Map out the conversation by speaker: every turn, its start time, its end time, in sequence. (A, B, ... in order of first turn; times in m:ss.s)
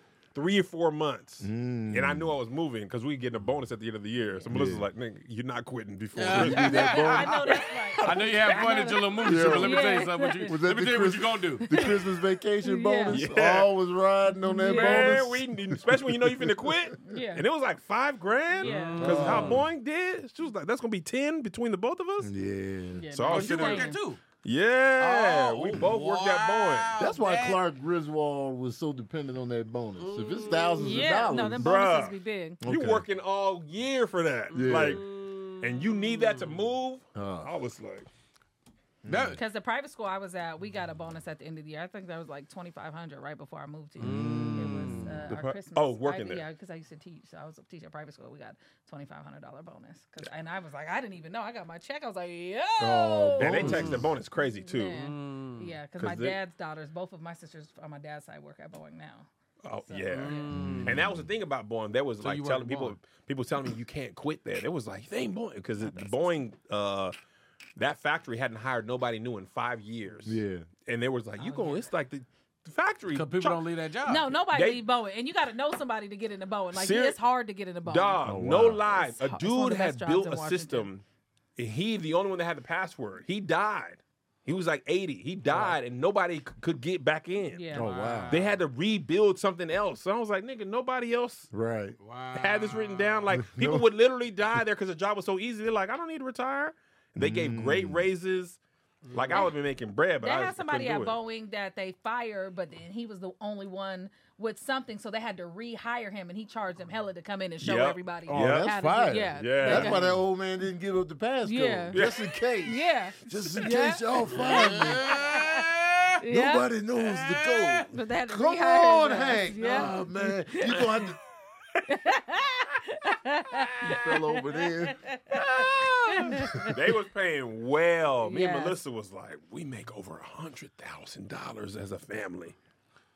0:00.3-0:08.7 A
0:01.4-0:02.3 B
0:04.5-0:04.8 B
0:06.2-0:07.3 C
0:06.3-0:07.4 B
0:06.8-0:10.5 D
0:08.0-0:11.8 C
0:09.2-0:17.0 B
0:11.7-0:12.0 D
0:12.6-0:13.2 D
0:13.1-0:13.7 A
0:14.4-0:15.2 D
0:14.6-0:22.3 A
0:17.0-0:17.4 D
0:18.5-0:19.5 D
0:18.6-0:19.6 C
0:19.0-0:19.7 B
0:22.2-0:23.0 B
0:22.9-0:24.0 D
0:23.1-0:26.9 A
0:23.2-0:24.2 C
0:25.0-0:27.6 C
0:27.0-0:31.6 B
0:30.0-0:31.4 C
0:30.8-0:32.6 D
0:31.3-0:38.1 A
0:32.6-0:33.0 B
0:34.5-0:36.6 C
0:34.5-0:35.0 B
0:37.1-0:37.5 B
0:39.0-0:39.4 B
0:39.1-0:39.4 C
0:39.3-0:59.3 D
0:44.0-0:45.2 C
0:44.0-0:45.3 B
0:45.3-0:46.4 A
0:52.8-0:54.1 B
0:53.4-0:55.0 A
0:53.6-0:54.1 C
0:54.9-0:55.7 C
0:56.0-0:56.4 A
0:59.6-1:07.1 A
0:59.9-1:00.6 D
1:00.1-1:01.0 C
1:00.5-1:01.3 B
1:02.2-1:03.0 C
1:07.8-1:13.6 A
1:10.2-1:10.7 B
1:11.4-1:11.8 D
1:13.1-1:14.3 C
1:14.0-1:20.9 D
1:14.5-1:14.8 A
1:16.7-1:17.2 A
1:17.8-1:21.0 A
1:18.2-1:18.8 B
1:21.6-1:27.7 A
1:27.5-1:27.9 D
1:27.7-1:28.4 B
1:27.7-1:28.6 C
1:28.3-1:31.5 A
1:31.5-1:32.0 B
1:32.0-1:33.3 C
1:32.3-1:38.6 A
1:33.3-1:33.8 B
1:37.2-1:38.1 B
1:39.0-1:39.5 C
1:39.1-1:41.2 A
1:40.2-1:50.1 D
1:47.6-1:48.7 A
1:48.3-1:55.0 B
1:49.4-1:50.1 A
1:51.4-1:52.0 D
1:51.9-1:52.3 A
1:52.6-1:55.7 D
1:54.3-1:56.2 C
1:56.2-1:56.7 D
1:56.3-2:01.2 B
1:57.0-1:57.9 C
1:57.9-2:01.1 D
2:01.9-2:06.7 D
2:03.8-2:05.0 B
2:05.5-2:12.6 A
2:06.1-2:06.7 B
2:08.2-2:08.8 D